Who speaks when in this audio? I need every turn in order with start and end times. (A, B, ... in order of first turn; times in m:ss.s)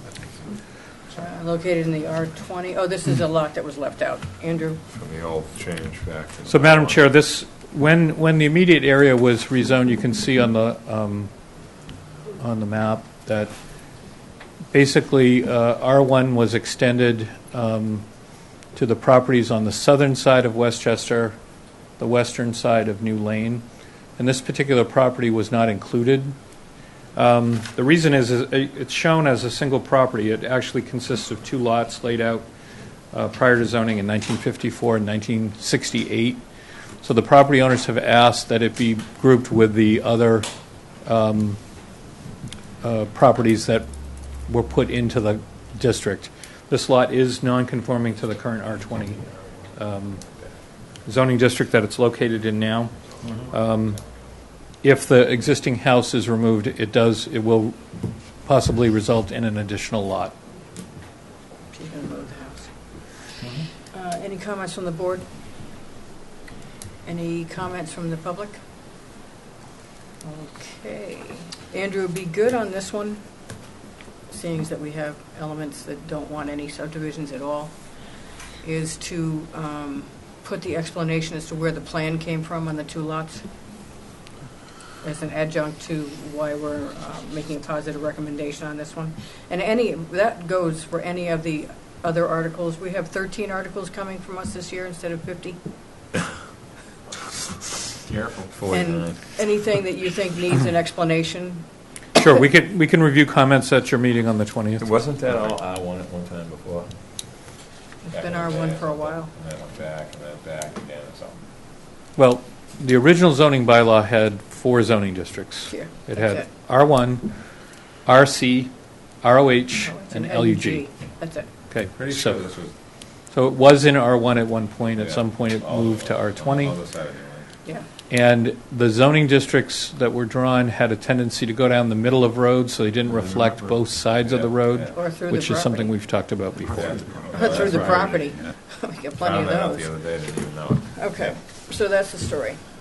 0:01.1-0:04.8 A
0:04.9-0:07.0 B
0:06.4-0:11.3 C
0:12.4-0:13.5 C
0:14.7-0:18.1 C
0:18.7-0:21.4 C
0:22.0-0:23.6 C
0:24.2-0:26.3 C
0:27.1-0:32.5 C
0:33.1-0:36.4 C
0:37.0-0:40.5 C
0:41.0-0:41.6 C
0:42.8-0:50.2 C
0:51.0-0:57.8 C
0:58.4-1:00.3 C
1:01.7-1:02.7 A
1:03.9-1:05.3 A
1:07.0-1:08.6 A
1:10.2-1:13.2 A
1:14.3-1:23.4 A
1:25.0-1:35.6 A
1:38.0-1:39.2 B
1:38.7-1:41.6 A
1:42.1-1:44.9 C
1:44.8-1:47.0 B
1:48.0-1:49.3 A
1:48.1-1:51.4 B
1:52.2-2:00.9 C
1:55.7-1:56.5 A
1:59.8-2:01.5 A
2:01.7-2:02.4 C
2:01.9-2:02.7 B
2:03.3-2:06.8 C
2:05.0-2:07.5 B
2:08.1-2:17.8 C
2:14.2-2:15.0 B
2:14.9-2:16.0 A
2:16.8-2:18.5 B
2:17.3-2:20.1 A
2:19.2-2:21.3 B
2:20.9-2:22.6 A